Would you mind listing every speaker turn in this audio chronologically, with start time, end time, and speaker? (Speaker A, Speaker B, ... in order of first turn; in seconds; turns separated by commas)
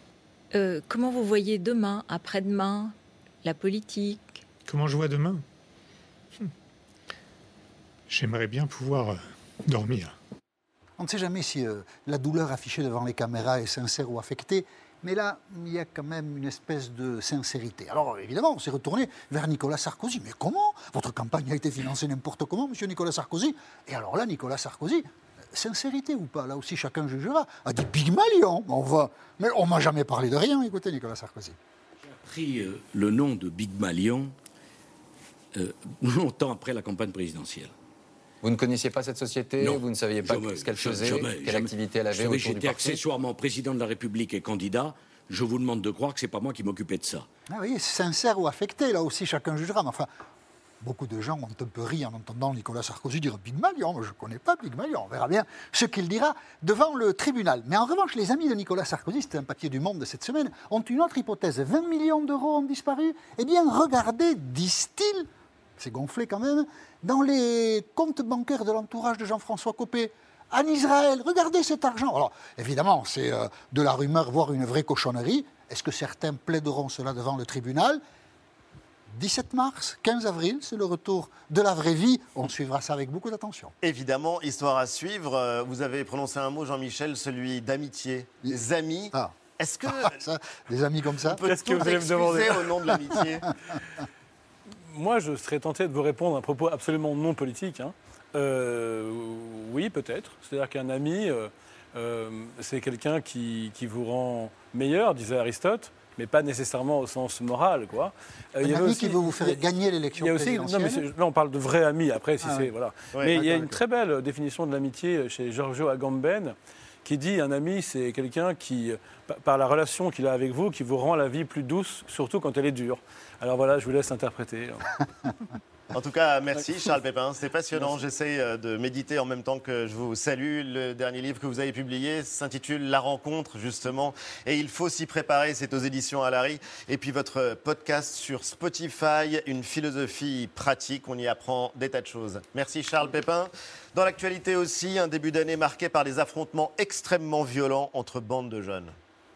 Speaker A: 0.5-4.4, Speaker B: 4.7-5.4, Speaker B: 8.1-10.1, Speaker C: 11.0-31.6, Speaker D: 32.0-34.3, Speaker D: 35.5-37.7, Speaker E: 38.4-43.0, Speaker D: 39.6-47.3, Speaker C: 47.5-50.1, Speaker C: 50.8-65.3, Speaker C: 65.8-78.0, Speaker C: 79.1-83.7, Speaker F: 83.8-90.2, Speaker C: 89.9-91.4, Speaker F: 91.3-93.4, Speaker G: 91.5-92.7, Speaker G: 94.9-109.7, Speaker C: 108.6-111.0, Speaker G: 110.2-124.9, Speaker C: 112.4-112.7, Speaker C: 113.3-113.8, Speaker F: 125.9-148.9